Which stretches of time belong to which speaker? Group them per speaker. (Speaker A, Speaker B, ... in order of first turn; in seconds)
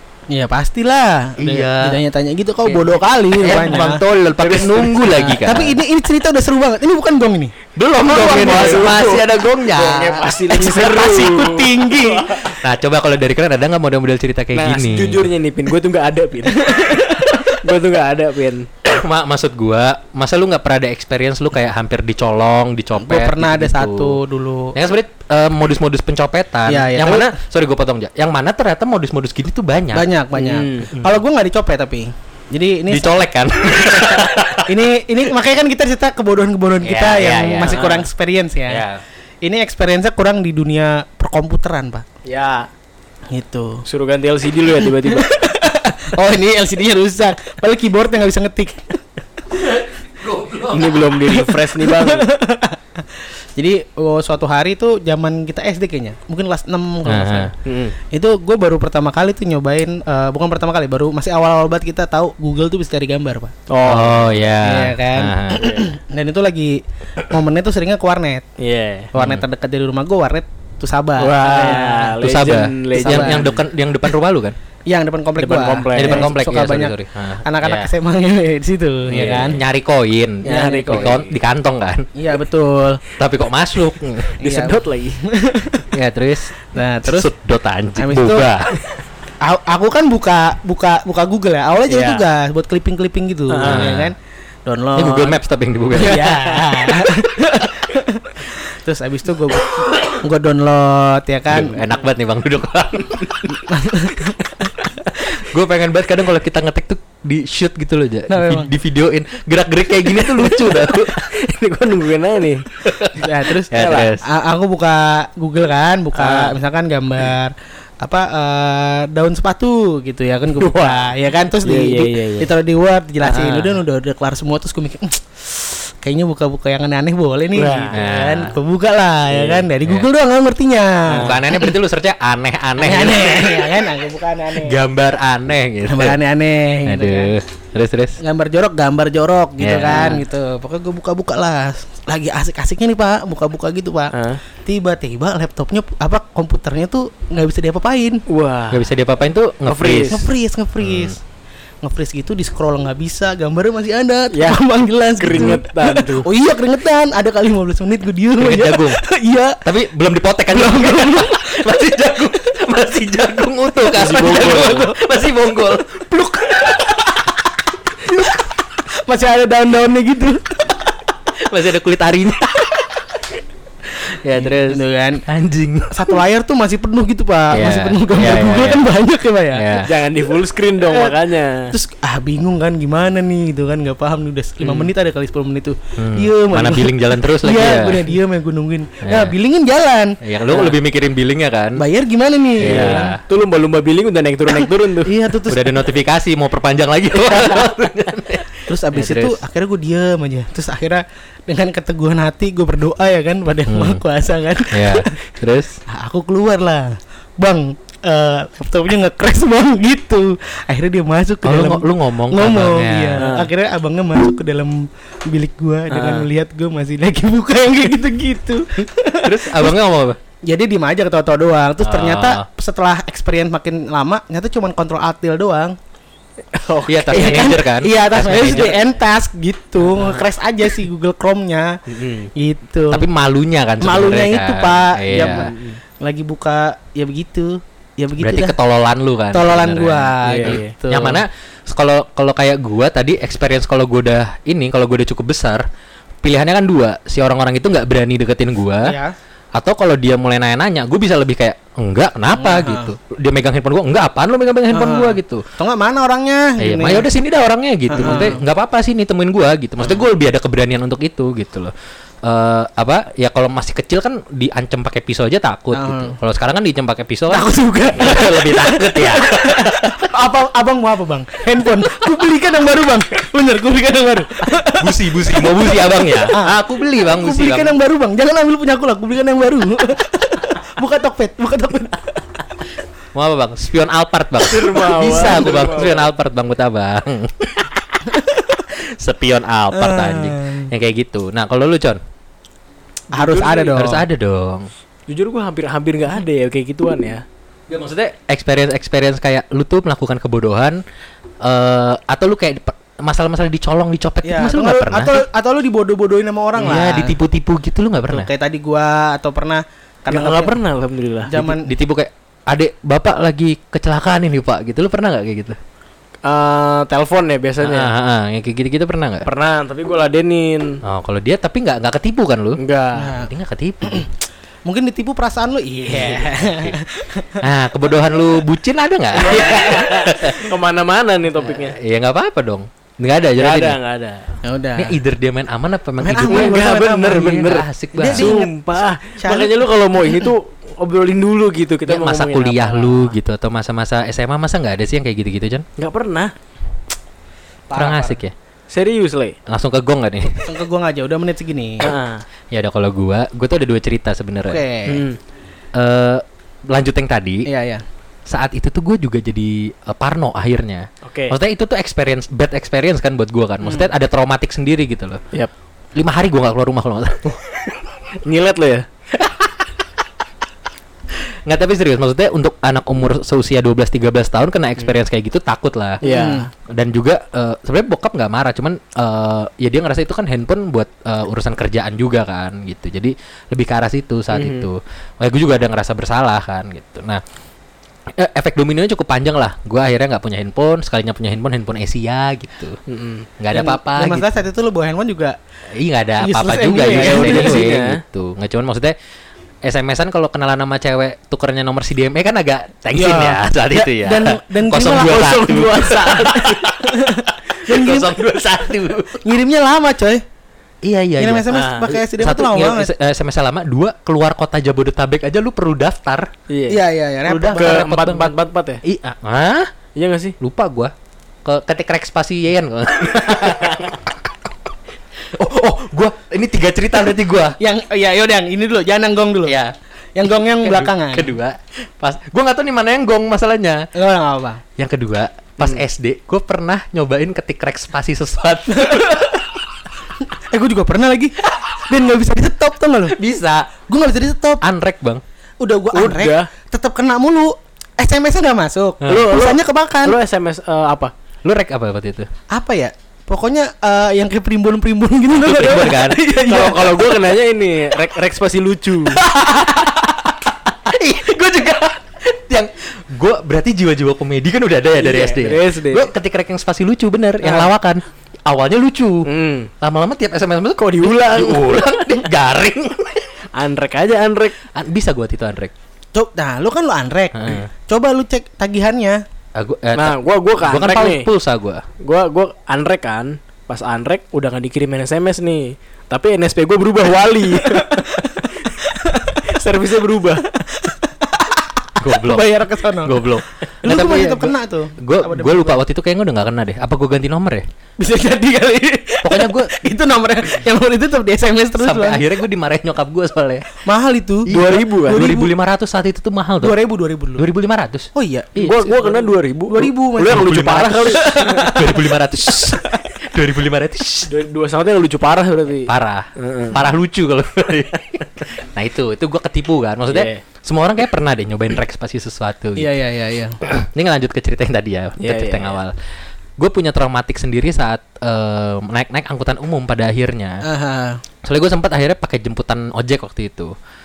Speaker A: 0.3-4.0, 5.1-7.5, 8.3-8.7, 10.5-12.4, 16.5-17.6, 23.0-24.8, 26.7-27.4, 29.9-33.2, 34.6-38.8, 39.4-42.0, 43.3-43.8, 44.9-49.0, 51.3-57.5, 58.1-63.5, 64.6-68.5, 69.1-73.5, 74.9-79.6, 80.4-81.2, 82.2-83.0, 84.4-85.9, 86.7-87.3, 88.0-88.5, 89.4-94.1, 94.7-95.4, 95.9-101.8, 103.5-104.4, 108.3-108.7, 113.1-131.7, 132.8-134.8, 135.9-137.3, 138.2-148.2, 150.1-151.2, 151.8-159.6, 160.5-161.6, 164.2-164.9, 169.0-170.5, 174.4-175.2, 175.9-179.8, 180.8-181.1, 181.7-190.7, 191.8-193.1, 195.0-195.8, 198.7-205.1, 205.9-219.7, 220.5-225.8, 227.1-231.8, 232.3-233.0, 233.8-238.5, 239.3-241.2, 248.8-249.1, 252.3-252.9, 254.7-257.1, 257.9-258.4, 265.7-266.1, 267.3-282.2, 288.1-288.6, 289.7-290.7, 293.1-294.0, 304.2-307.1, 308.1-310.6, 311.3-311.7, 322.9-323.3, 324.7-327.4, 329.3-329.9, 334.4-334.9, 336.0-337.2, 337.9-338.5, 339.1-339.6, 347.7-348.2, 350.4-351.9, 354.5-355.0, 357.4-357.8, 376.0-376.5, 393.5-395.4, 396.2-397.6, 402.9-408.1, 409.2-410.2, 411.2-412.9, 416.7-418.2, 427.6-429.6, 430.1-431.4, 433.9-434.6, 438.7-439.3, 440.3-443.1, 443.9-444.6, 445.6-450.2, 452.5-457.1, 476.1-479.2, 487.7-489.5, 490.5-493.2, 493.8-495.8, 498.0-502.2, 503.8-505.5, 506.6-507.4, 508.1-509.1, 509.7-511.9, 522.8-523.6, 530.6-531.2
Speaker B: 1.4-2.0, 3.3-5.8, 7.8-11.1, 12.5-15.3, 18.8-24.2, 24.7-30.1, 32.9-34.7, 36.8-37.9, 38.7-39.0, 49.6-51.1, 57.0-57.5, 63.8-65.8, 69.2-69.4, 72.2-74.5, 75.9-77.9, 79.1-82.1, 83.2-84.3, 85.9-88.7, 93.6-94.1, 95.0-96.3, 101.5-103.6, 105.0-111.2, 112.8-114.2, 123.2-123.8, 127.9-128.6, 131.2-133.8, 134.5-136.2, 136.8-138.2, 139.6-140.2, 148.7-150.2, 150.8-151.2, 158.4-159.0, 159.6-167.1, 168.1-168.4, 171.3-173.0, 174.0-176.2, 177.5-178.9, 179.5-179.9, 186.0-188.2, 189.0-189.3, 190.2-191.8, 192.6-193.2, 195.4-199.4, 203.7-204.0, 204.7-205.8, 211.4-213.3, 219.2-220.2, 221.8-222.5, 226.8-228.7, 232.9-235.5, 238.2-245.6, 246.2-248.9, 249.5-255.4, 256.6-261.7, 262.2-270.1, 274.7-277.8, 283.1-292.0, 293.7-294.7, 297.7-300.8, 301.4-305.2, 306.6-308.3, 311.3-315.6, 317.6-319.3, 320.8-324.1, 325.9-326.8, 327.4-330.4, 331.4-333.8, 334.8-338.4, 341.9-345.6, 347.7-348.3, 349.5-350.5, 352.5-354.6, 355.8-357.4, 358.3-365.2, 365.9-367.6, 369.1-369.5, 371.4-376.0, 376.7-387.2, 388.1-392.8, 393.4-394.2, 395.7-398.9, 399.6-409.3, 410.8-416.3, 417.3-419.7, 420.4-420.9, 421.4-424.5, 425.3-427.6, 429.4-429.7, 430.3-433.9, 434.8-439.4, 443.1-443.7, 444.6-445.2, 449.0-449.3, 451.4-452.3, 455.4-456.2, 459.1-473.4, 474.7-475.7, 477.3-477.7, 479.5-481.8, 492.0-497.6, 499.2-499.8, 501.8-503.7, 504.5-506.8, 507.4-509.0, 510.2-514.3, 515.9-522.9, 523.6-525.9, 526.6-530.6, 531.4-533.7
Speaker C: 4.4-5.1, 8.0-12.5, 14.5-18.7, 30.4-30.9, 37.6-38.0, 42.2-42.7, 43.9-45.3, 50.7-52.3, 57.6-58.0, 63.7-64.4, 68.6-69.1, 71.2-73.6, 75.4-76.3, 79.1-79.5, 80.4-81.4, 84.4-85.2, 91.9-92.2, 93.5-94.0, 96.0-96.9, 110.3-112.7, 113.7-114.1, 116.1-116.5, 120.6-122.5, 127.5-128.0, 129.3-129.7, 131.1-131.4, 144.1-144.4, 148.3-148.9, 149.7-150.3, 154.3-154.6, 155.2-156.3, 163.9-164.9, 179.8-181.7, 184.6-184.9, 192.6-195.1, 213.2-213.5, 215.9-216.3, 226.5-227.5, 228.2-228.9, 231.9-232.3, 235.2-235.8, 240.2-240.7, 284.4-286.1, 293.1-293.8, 295.1-297.2, 310.1-311.3, 316.2-317.9, 319.2-320.8, 322.6-323.1, 329.2-331.8, 333.4-334.4, 336.2-343.1, 345.8-346.3, 348.7-349.4, 351.8-352.2, 354.9-355.2, 361.0-361.3, 368.2-368.8, 376.0-376.4, 384.3-384.7, 392.9-393.3, 396.8-398.0, 404.9-406.6, 411.5-411.9, 416.5-416.8, 417.5-418.8, 419.9-420.4, 445.9-446.5, 449.1-451.1, 455.6-459.2, 465.0-466.1, 467.4-467.7, 469.2-469.7, 470.8-472.3, 473.5-474.6, 479.9-481.3, 482.0-488.4, 489.4-490.4, 504.5-505.3, 508.6-511.7, 514.3-516.8, 520.1-520.4, 525.2-525.7